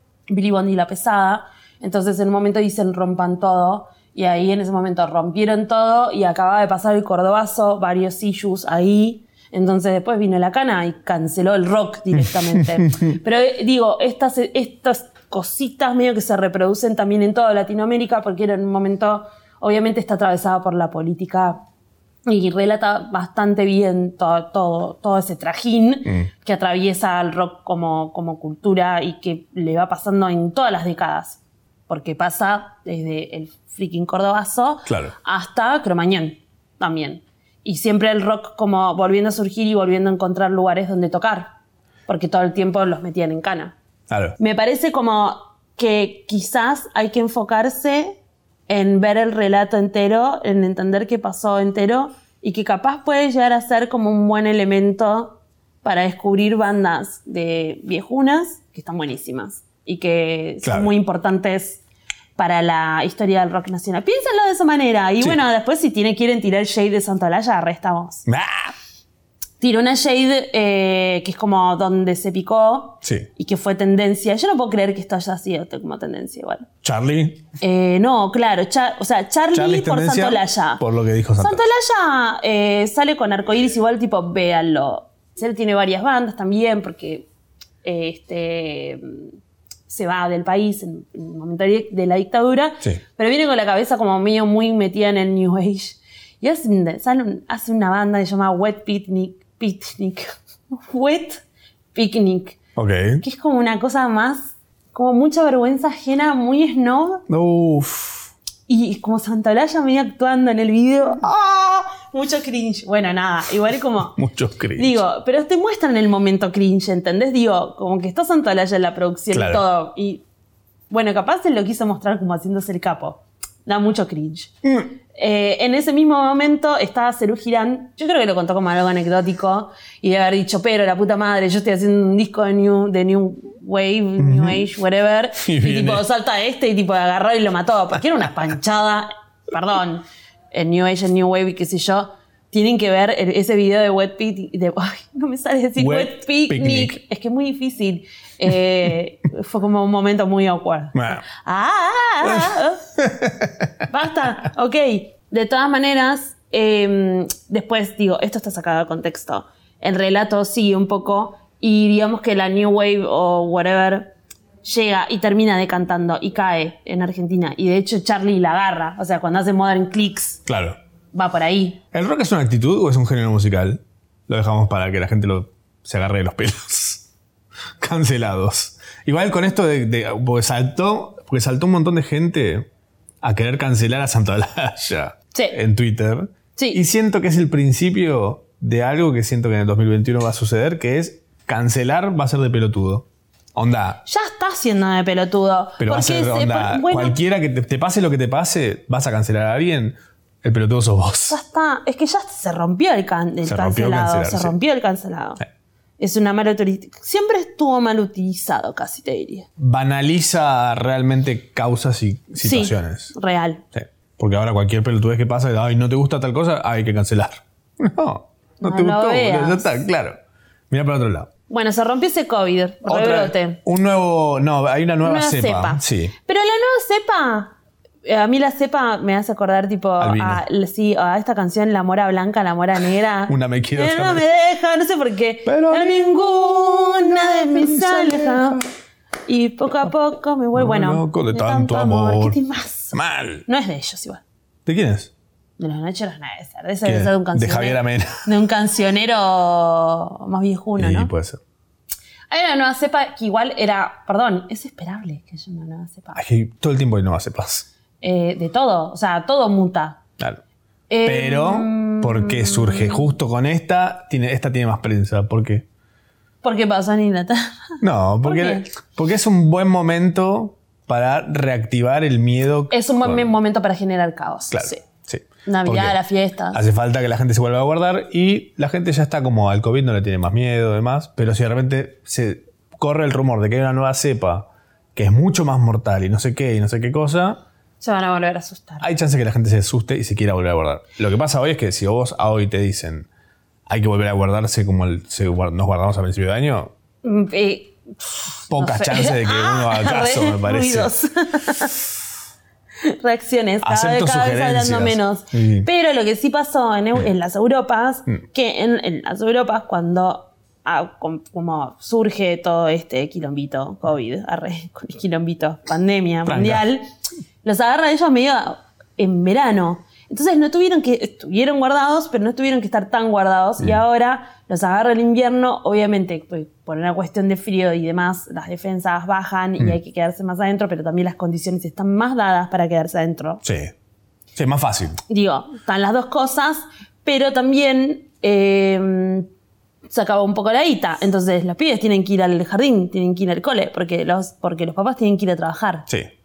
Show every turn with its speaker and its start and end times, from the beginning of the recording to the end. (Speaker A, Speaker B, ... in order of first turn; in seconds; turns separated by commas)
Speaker A: 0.3-21.6, Speaker B: 12.2-13.1, Speaker A: 22.3-41.5, Speaker B: 34.9-35.1, Speaker A: 42.1-43.8, Speaker B: 44.1-44.4, Speaker A: 44.4-61.8, Speaker B: 60.6-60.9, Speaker A: 62.4-68.3, Speaker B: 68.3-68.7, Speaker A: 69.6-76.7, Speaker B: 73.0-73.3, Speaker B: 76.8-77.5, Speaker A: 77.6-80.8, Speaker B: 79.5-81.6, Speaker A: 81.4-87.3, Speaker A: 87.8-89.3, Speaker A: 89.9-101.4, Speaker A: 102.0-102.6, Speaker B: 102.8-103.2, Speaker A: 103.2-107.2, Speaker B: 107.3-108.3, Speaker A: 108.7-114.2, Speaker B: 114.2-115.0, Speaker A: 114.8-120.2, Speaker B: 119.3-119.6, Speaker A: 120.9-124.5, Speaker B: 124.6-124.9, Speaker A: 125.1-152.8, Speaker B: 134.2-134.7, Speaker B: 135.4-136.0, Speaker B: 145.8-147.0, Speaker B: 150.9-151.2, Speaker B: 152.2-153.8, Speaker A: 153.9-170.4, Speaker B: 170.5-170.8, Speaker A: 171.1-171.8, Speaker B: 171.9-177.1, Speaker B: 177.8-182.7, Speaker B: 183.2-194.0, Speaker A: 186.6-186.8, Speaker A: 194.1-197.2, Speaker B: 195.8-201.4, Speaker A: 201.3-205.4, Speaker B: 203.4-204.5, Speaker A: 206.0-209.5, Speaker B: 209.6-213.1, Speaker A: 212.4-213.6, Speaker B: 213.7-220.2, Speaker A: 218.6-219.8, Speaker B: 220.7-221.3, Speaker A: 221.5-223.6, Speaker B: 222.9-226.1, Speaker A: 225.0-238.7, Speaker B: 230.0-230.4, Speaker B: 233.3-234.2, Speaker B: 235.5-238.5, Speaker A: 239.3-244.2, Speaker B: 240.6-242.4, Speaker B: 242.9-243.4, Speaker B: 244.7-245.1, Speaker A: 245.6-251.1, Speaker B: 246.8-248.3, Speaker B: 250.8-251.4, Speaker A: 252.3-256.2, Speaker B: 256.1-257.7, Speaker A: 258.0-260.0, Speaker A: 260.9-263.1, Speaker B: 261.0-265.6, Speaker A: 266.4-268.7, Speaker B: 267.8-273.3, Speaker A: 272.7-274.8, Speaker B: 274.5-276.0, Speaker A: 275.4-276.6, Speaker B: 276.5-287.4, Speaker A: 287.8-288.9, Speaker B: 288.8-293.1, Speaker B: 293.7-296.7, Speaker A: 297.0-301.8, Speaker B: 298.5-300.9, Speaker A: 302.8-316.9, Speaker B: 303.6-305.7, Speaker B: 316.3-316.6, Speaker A: 317.4-333.4, Speaker B: 333.4-333.7, Speaker B: 334.4-335.0, Speaker A: 335.1-339.3, Speaker A: 339.9-345.9